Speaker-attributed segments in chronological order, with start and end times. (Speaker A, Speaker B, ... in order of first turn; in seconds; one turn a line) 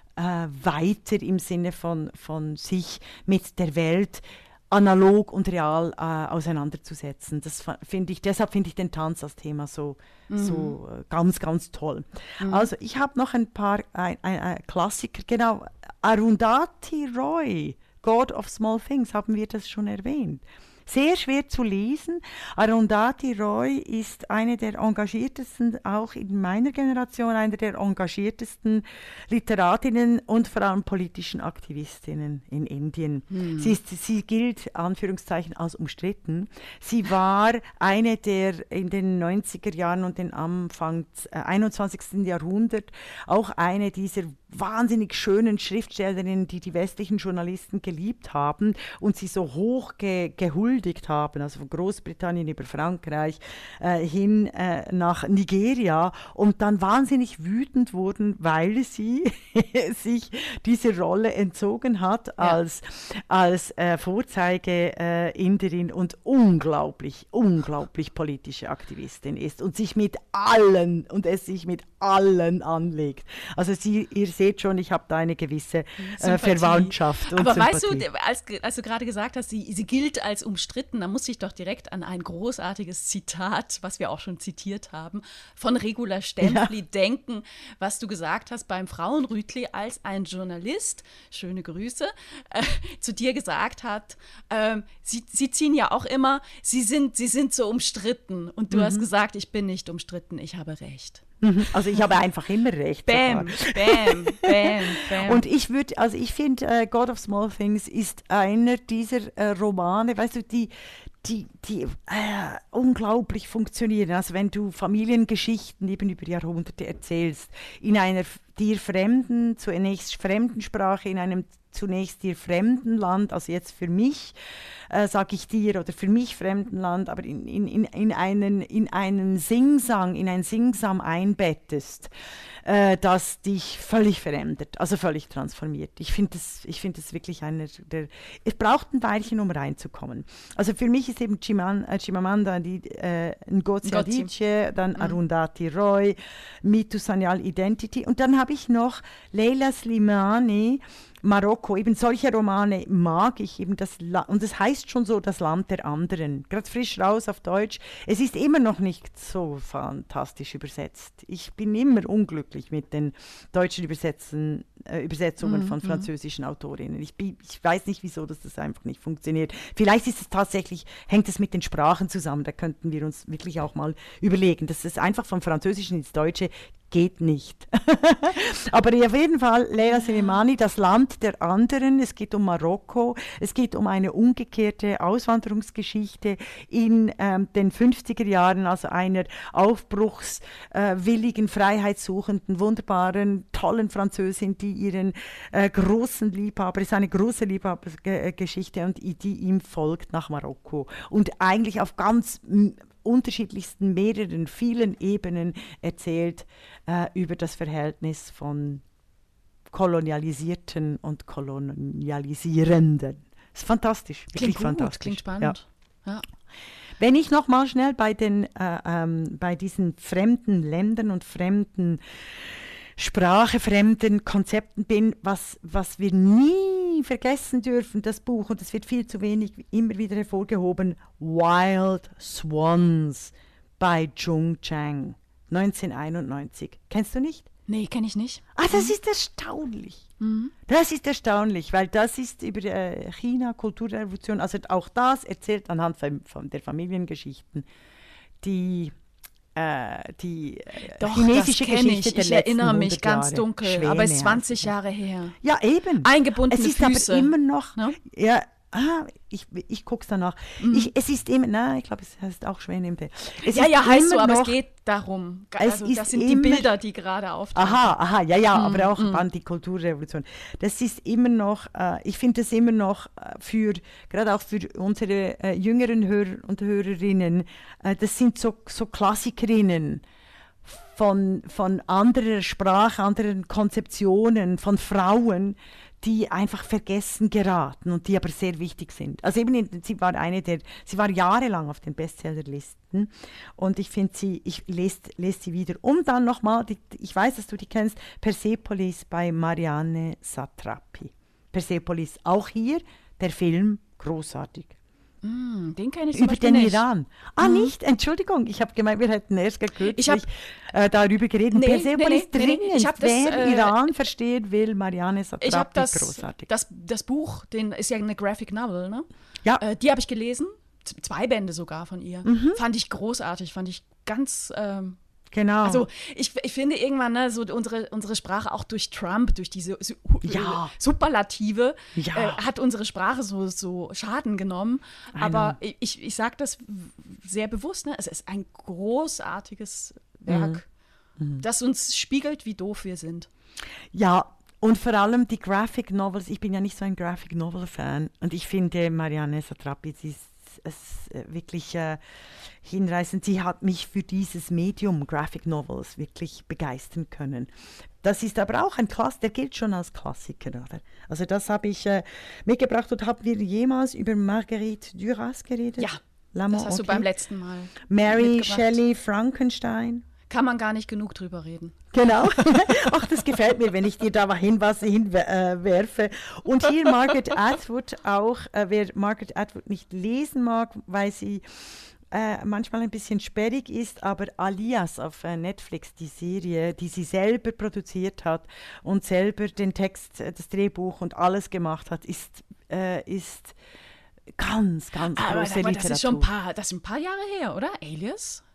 Speaker A: 0.2-78.0
Speaker B: 10.3-10.7
Speaker B: 12.4-12.7
Speaker B: 33.3-33.7
Speaker B: 76.0-101.7
Speaker A: 86.4-86.7
Speaker A: 98.7-99.1
Speaker A: 101.4-124.3
Speaker B: 103.0-105.4
Speaker A: 124.9-132.1
Speaker A: 132.6-208.8
Speaker B: 143.8-144.3
Speaker B: 165.4-166.1
Speaker B: 179.9-180.3
Speaker A: 209.7-215.6
Speaker B: 214.3-216.2
Speaker A: 217.0-237.5
Speaker B: 237.7-238.9
Speaker A: 238.5-240.1
Speaker B: 240.2-240.5
Speaker A: 240.7-247.7
Speaker A: 248.4-248.9
Speaker A: 249.5-254.7
Speaker B: 250.9-255.4
Speaker A: 255.4-264.6
Speaker B: 256.0-258.0
Speaker B: 260.6-260.9
Speaker B: 263.4-267.9
Speaker A: 265.6-266.7
Speaker A: 267.5-280.0
Speaker B: 268.5-269.2
Speaker A: 280.6-304.7
Speaker B: 305.2-306.8
Speaker A: 306.1-316.5
Speaker B: 307.4-307.7
Speaker B: 309.9-310.2
Speaker B: 311.5-313.8
Speaker B: 315.4-319.1
Speaker B: 319.6-325.0
Speaker A: 322.2-322.6
Speaker A: 325.3-325.9
Speaker B: 325.6-340.7
Speaker A: 330.2-330.7
Speaker A: 331.9-332.4
Speaker A: 335.1-335.6
Speaker A: 340.3-340.6
Speaker A: 341.2-341.4
Speaker B: 341.4-343.3
Speaker A: 343.9-352.0
Speaker A: 352.6-357.5
Speaker A: 358.0-367.1
Speaker B: 366.5-368.8
Speaker A: 367.9-370.0
Speaker B: 370.3-371.8
Speaker A: 371.9-381.4
Speaker A: 382.1-393.5
Speaker A: 394.3-396.3
Speaker B: 395.1-398.4